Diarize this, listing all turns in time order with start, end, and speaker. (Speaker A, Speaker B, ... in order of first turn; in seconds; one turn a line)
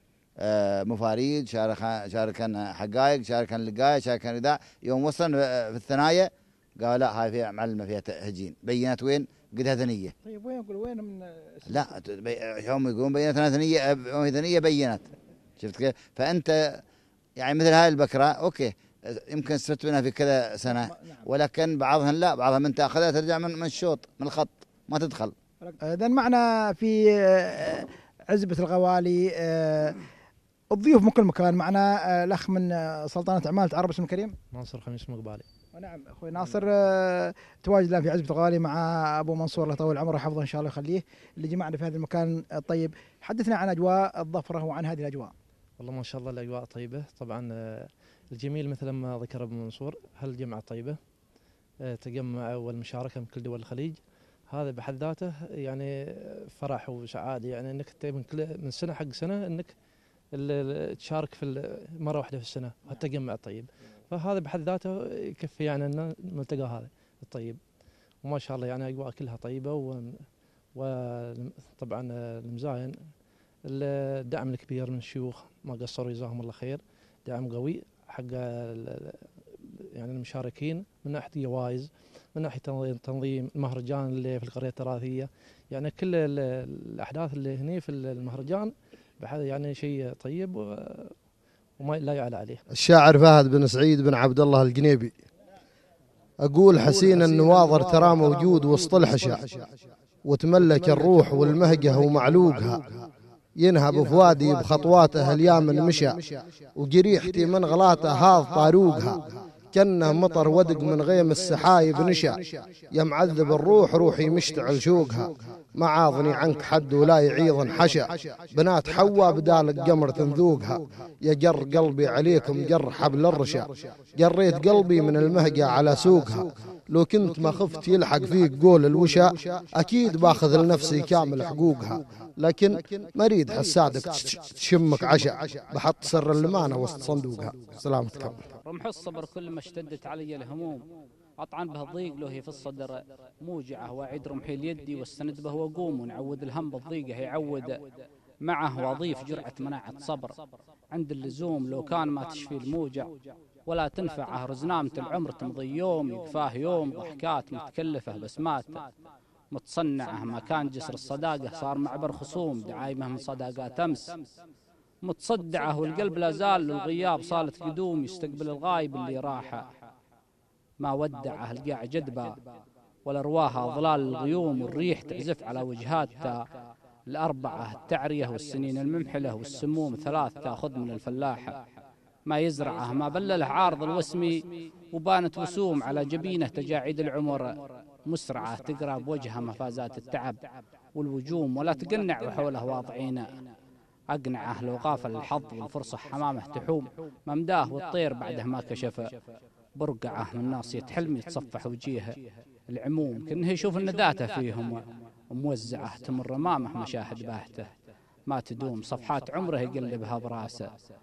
Speaker A: 0.4-10.1
Speaker B: 10.2-11.9
Speaker A: 11.7-15.1
Speaker A: 15.6-16.8
Speaker A: 17.4-25.3
Speaker B: 20.7-21.2
Speaker B: 25.6-30.0
Speaker B: 30.7-34.4
Speaker C: 34.5-35.4
Speaker B: 35.7-45.3
Speaker C: 45.8-51.0
Speaker C: 51.9-54.0
Speaker C: 54.5-59.7
Speaker C: 60.3-67.6
Speaker C: 68.2-70.2
Speaker C: 70.7-73.0
Speaker C: 73.7-91.1
Speaker C: 91.8-92.6
Speaker D: 92.7-95.1
Speaker D: 96.4-99.5
Speaker D: 100.2-103.0
Speaker D: 103.6-123.7
Speaker D: 124.2-138.5
Speaker E: 138.7-140.8
Speaker E: 141.4-147.8
Speaker E: 148.4-150.3
Speaker E: 150.9-153.1
Speaker E: 153.7-158.8
Speaker E: 159.5-164.1
Speaker E: 165.0-169.6
Speaker E: 170.8-172.3
Speaker E: 173.1-176.4
Speaker E: 177.1-181.6
Speaker E: 182.3-184.4
Speaker E: 184.9-187.5
Speaker E: 188.1-190.4
Speaker E: 190.9-193.3
Speaker E: 194.1-199.1
Speaker E: 199.8-202.1
Speaker E: 202.7-207.7
Speaker E: 208.3-210.7